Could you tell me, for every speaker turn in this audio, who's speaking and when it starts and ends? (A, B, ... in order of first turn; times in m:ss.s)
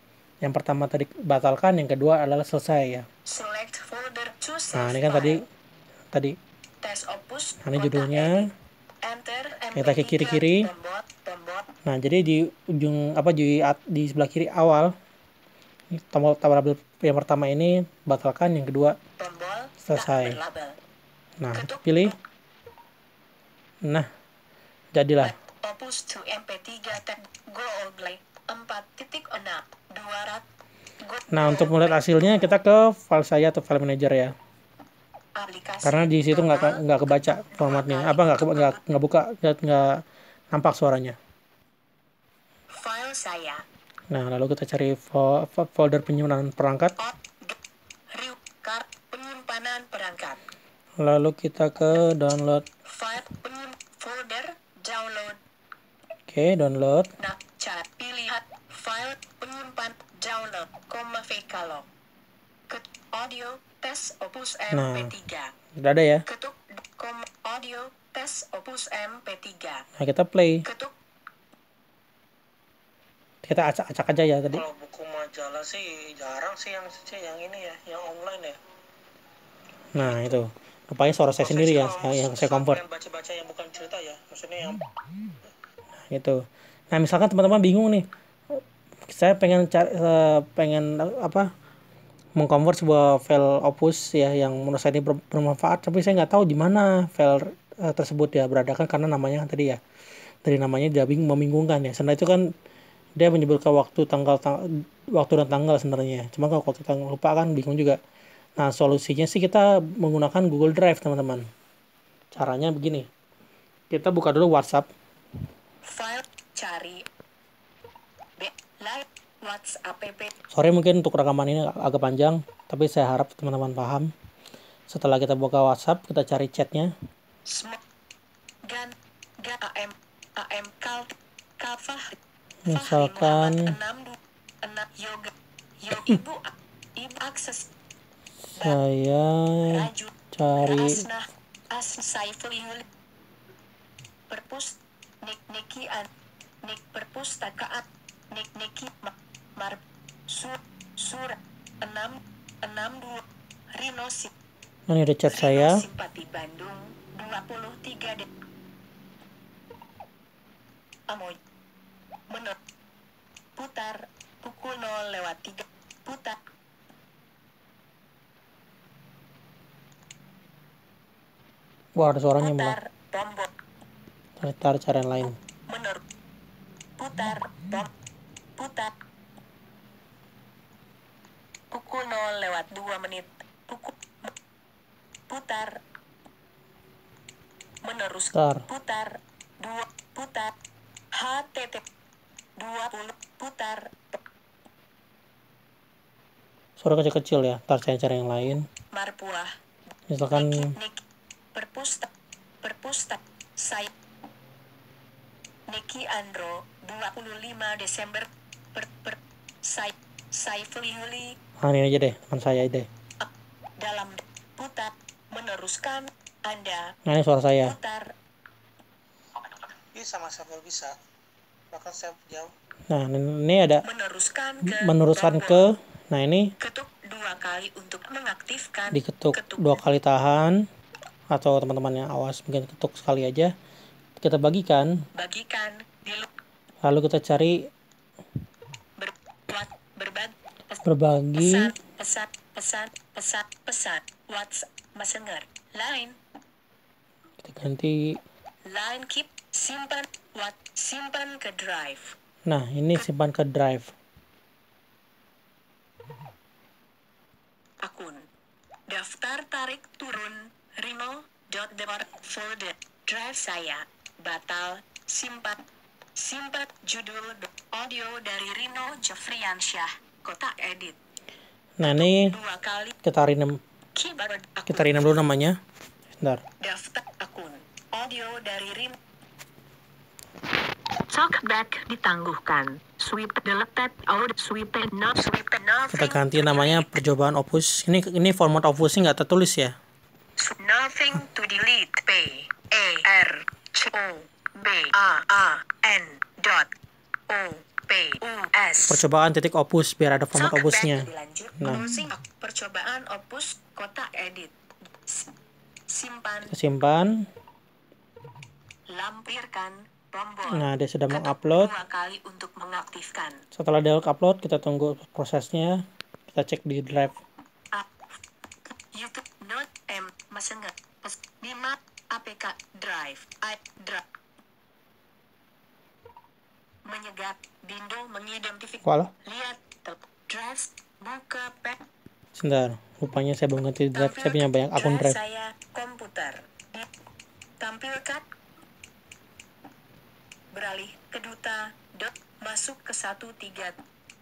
0:00.4-0:03.0 A
0:03.2-0:05.4 B
0:04.7-0:05.4 A
0:06.8-0:08.5 B
0:07.6-0:08.5 A
0:09.0-0:11.7 B
0:09.8-0:10.7 A
0:11.8-0:14.9 A
0:15.9-0:19.0 A
0:19.2-0:20.8 B
0:19.8-0:20.4 A
0:21.4-0:22.1 A
0:21.5-0:22.2 B
0:24.9-0:25.3 A
0:25.2-0:30.4 B
0:31.0-0:32.5 B
0:31.3-0:34.3 A
0:35.4-0:38.8 B
0:35.8-0:41.2 A
0:42.7-0:43.6 B
0:44.1-0:46.9 A
0:47.0-0:47.6 B
0:48.1-0:50.4 B
0:51.0-0:52.6 A
0:52.8-0:55.4 B
0:56.3-0:57.1 A
0:57.2-1:01.8 B
1:02.7-1:05.5 B
1:04.7-1:05.1 A
1:05.8-1:06.2 A
1:06.3-1:09.8 B
1:10.0-1:10.6 A
1:10.6-1:10.9 B
1:13.4-1:14.7 A
1:14.6-1:18.6 C
1:19.9-1:22.8 A
1:20.0-1:20.4 B
1:21.4-1:24.8 C
1:26.0-1:26.4 A
1:26.9-1:31.5 A
1:32.3-1:39.8 A
1:40.4-1:42.4 A
1:43.2-1:48.0 A
1:48.6-1:51.4 A
1:52.3-1:53.1 A
1:53.9-1:54.9 A
1:55.8-1:57.0 B
1:58.4-2:00.3 B
2:00.5-2:04.1 A
2:04.9-2:06.9 A
2:07.4-2:07.8 B
2:08.7-2:12.2 B
2:12.6-2:13.7 A
2:12.7-2:17.7 B
2:18.5-2:21.0 A
2:19.7-2:22.8 B
2:24.3-2:26.1 B
2:26.6-2:34.3 B
2:34.9-2:35.8 A
2:35.3-2:38.3 B
2:41.1-2:41.4 B
2:42.3-2:42.6 B
2:43.6-2:46.4 B
2:52.0-2:52.8 A
2:52.4-2:53.5 B
2:54.4-2:55.3 A
2:55.7-2:56.0 B
2:57.0-2:57.9 B
2:58.6-2:58.9 B
3:01.7-3:04.3 B
3:05.3-3:05.8 B
3:07.8-3:10.5 B
3:08.3-3:08.6 A
3:11.1-3:11.8 B
3:12.6-3:14.2 B
3:16.8-3:18.6 A
3:18.9-3:19.5 B
3:20.1-3:20.7 A
3:20.3-3:22.1 B
3:22.6-3:23.9 B
3:25.7-3:31.4 B
3:31.6-3:32.9 A
3:33.2-3:36.9 B
3:37.0-3:37.8 A
3:37.6-3:38.1 B
3:39.9-3:40.9 C
3:41.7-3:42.5 C
3:42.9-3:43.8 A
3:43.8-3:45.6 B
3:44.6-3:46.5 A
3:46.6-3:49.7 B
3:48.9-3:50.6 A
3:51.3-3:53.5 A
3:54.2-3:54.9 A
3:55.1-3:56.3 B
3:56.8-3:57.7 A
3:59.0-4:00.8 B
4:00.8-4:01.7 A
4:01.4-4:06.2 B
4:07.4-4:08.2 A
4:08.7-4:12.1 B
4:12.5-4:13.9 A
4:17.8-4:18.2 B
4:18.9-4:25.6 B
4:26.2-4:31.0 B
4:31.8-4:32.3 A
4:31.8-4:33.0 B
4:33.0-4:33.6 A
4:33.9-4:35.2 B
4:34.7-4:35.6 A
4:36.6-4:39.0 B
4:41.1-4:46.9 B
4:45.9-4:49.7 A
4:50.4-4:56.7 B
4:57.3-4:59.0 B
4:58.9-5:01.1 A
5:00.3-5:04.5 B
5:01.6-5:02.0 A
5:05.9-5:06.5 B
5:06.5-5:07.2 A
5:08.9-5:13.4 B
5:10.5-5:11.7 A
5:13.5-5:17.2 A
5:18.9-5:24.0 B
5:26.8-5:31.8 B
5:28.8-5:29.1 A
5:32.4-5:35.2 A
5:33.9-5:36.9 B
5:37.6-5:38.2 B
5:40.5-5:43.8 B